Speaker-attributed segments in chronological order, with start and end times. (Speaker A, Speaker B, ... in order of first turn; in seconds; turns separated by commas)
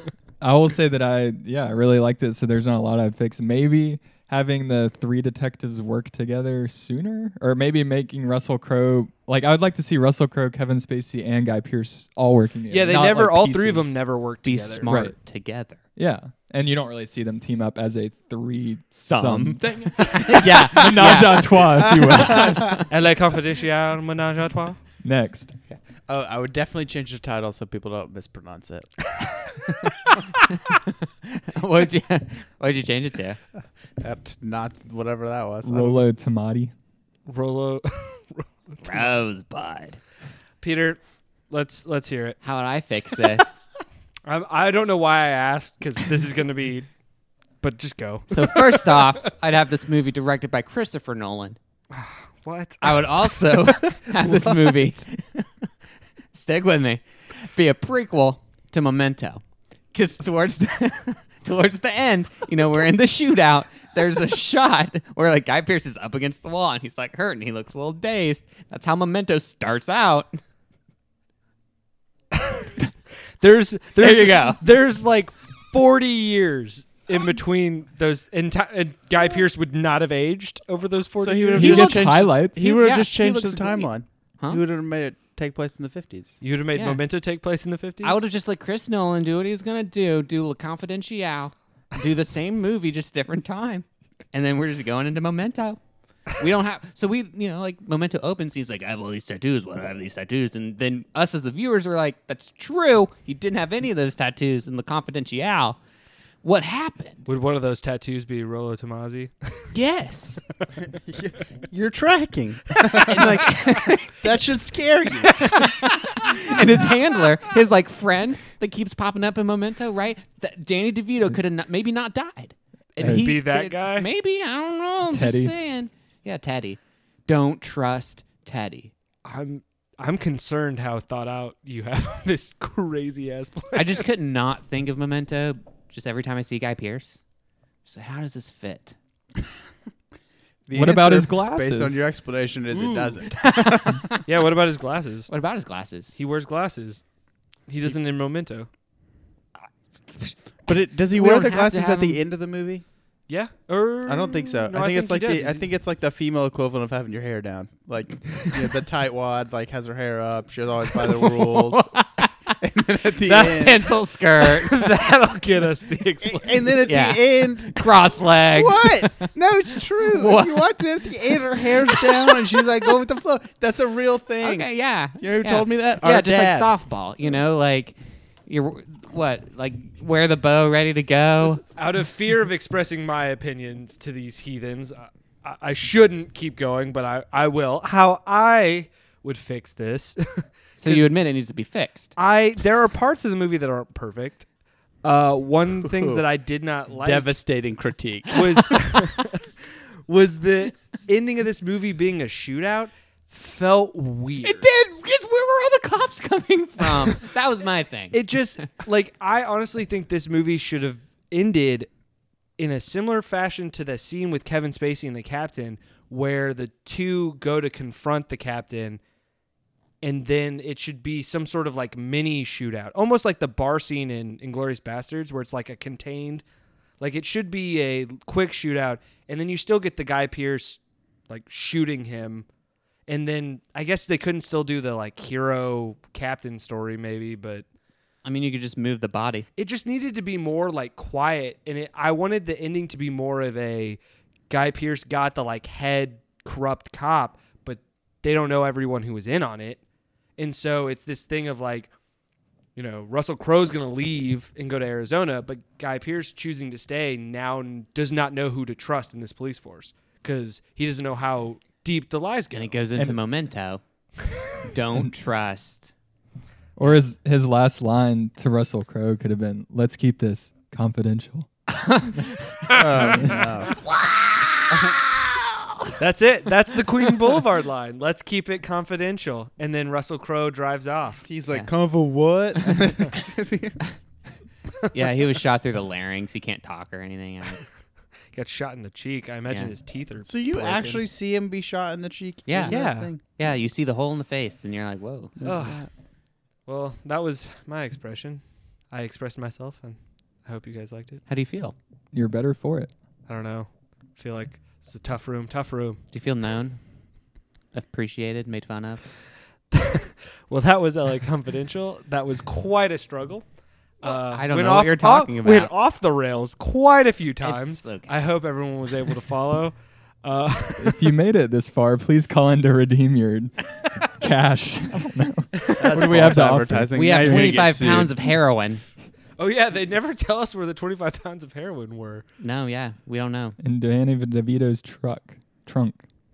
Speaker A: 0.4-14.0, Speaker B: 12.7-14.9, Speaker C: 14.4-15.8, Speaker A: 14.8-15.2, Speaker A: 15.9-22.8, Speaker C: 19.0-22.9, Speaker D: 19.6-22.8, Speaker B: 22.9-24.8, Speaker A: 25.0-25.5, Speaker D: 26.1-29.0, Speaker C: 30.9-33.4, Speaker D: 34.0-36.0, Speaker A: 35.6-36.7, Speaker B: 37.3-39.1, Speaker C: 38.8-40.0, Speaker B: 40.6-42.4, Speaker C: 42.4-43.5, Speaker B: 44.3-46.9, Speaker B: 47.6-49.3, Speaker C: 48.3-51.6, Speaker B: 51.9-53.9, Speaker C: 52.8-55.6, Speaker D: 54.2-54.7, Speaker C: 56.3-70.4, Speaker B: 72.3-72.9, Speaker B: 73.4-82.1, Speaker C: 74.0-74.6, Speaker D: 81.2-86.4, Speaker A: 81.5-82.7, Speaker C: 81.6-84.6, Speaker B: 86.4-88.2, Speaker C: 86.7-87.0, Speaker C: 88.0-95.8, Speaker C: 96.3-105.8, Speaker C: 106.4-107.2, Speaker B: 107.2-109.7, Speaker C: 109.7-110.4, Speaker D: 110.9-113.5, Speaker C: 113.0-114.2, Speaker D: 114.2-115.5, Speaker C: 115.2-128.9, Speaker A: 123.0-123.4, Speaker B: 123.0-124.1, Speaker A: 125.1-125.5, Speaker B: 129.2-134.0, Speaker C: 133.7-137.2, Speaker C: 137.8-138.9, Speaker D: 140.7-144.0, Speaker A: 140.7-142.0, Speaker B: 142.7-143.2, Speaker C: 143.3-144.2, Speaker B: 144.2-145.3, Speaker C: 145.3-146.2, Speaker B: 146.2-147.0, Speaker B: 147.7-148.7, Speaker D: 150.7-152.8, Speaker C: 151.1-152.2, Speaker B: 153.3-155.7, Speaker D: 154.1-161.9, Speaker C: 161.0-162.6, Speaker D: 162.6-163.9, Speaker C: 163.2-164.8, Speaker B: 164.5-166.8, Speaker D: 166.2-176.7, Speaker C: 166.8-169.3, Speaker C: 169.9-172.6, Speaker C: 174.4-181.6, Speaker B: 181.4-191.1, Speaker C: 190.8-192.1, Speaker B: 192.2-194.4, Speaker B: 195.0-197.3, Speaker D: 195.8-196.2, Speaker D: 196.9-198.7, Speaker B: 198.3-199.4, Speaker B: 200.1-204.7, Speaker C: 204.4-208.3, Speaker B: 206.8-207.2, Speaker B: 208.1-211.9, Speaker B: 212.6-219.0, Speaker B: 220.0-226.4, Speaker B: 227.0-232.4, Speaker B: 233.1-237.6, Speaker C: 238.2-239.4, Speaker B: 239.6-249.8, Speaker B: 250.4-251.9, Speaker B: 252.8-262.8, Speaker C: 262.5-263.8, Speaker C: 264.6-265.9, Speaker A: 266.8-271.5, Speaker C: 271.7-272.2, Speaker B: 272.7-273.4, Speaker D: 272.7-273.8, Speaker C: 273.7-276.0, Speaker D: 274.7-275.0, Speaker B: 276.0-281.2, Speaker D: 281.2-283.8, Speaker C: 282.6-282.9, Speaker C: 284.9-287.6, Speaker B: 288.3-291.0, Speaker D: 290.3-293.2, Speaker C: 292.5-295.4, Speaker B: 292.7-293.1, Speaker D: 295.4-295.9, Speaker B: 295.4-295.8, Speaker B: 296.7-301.2, Speaker C: 301.3-301.7, Speaker A: 302.1-302.9, Speaker B: 303.3-306.0, Speaker C: 306.1-306.8, Speaker C: 307.7-309.0, Speaker B: 309.7-313.4, Speaker B: 314.0-321.1, Speaker C: 314.0-315.7, Speaker C: 317.4-318.1, Speaker A: 320.8-327.5, Speaker D: 325.7-328.1, Speaker C: 326.9-328.8, Speaker B: 329.4-332.2, Speaker C: 332.4-333.6, Speaker A: 333.6-336.0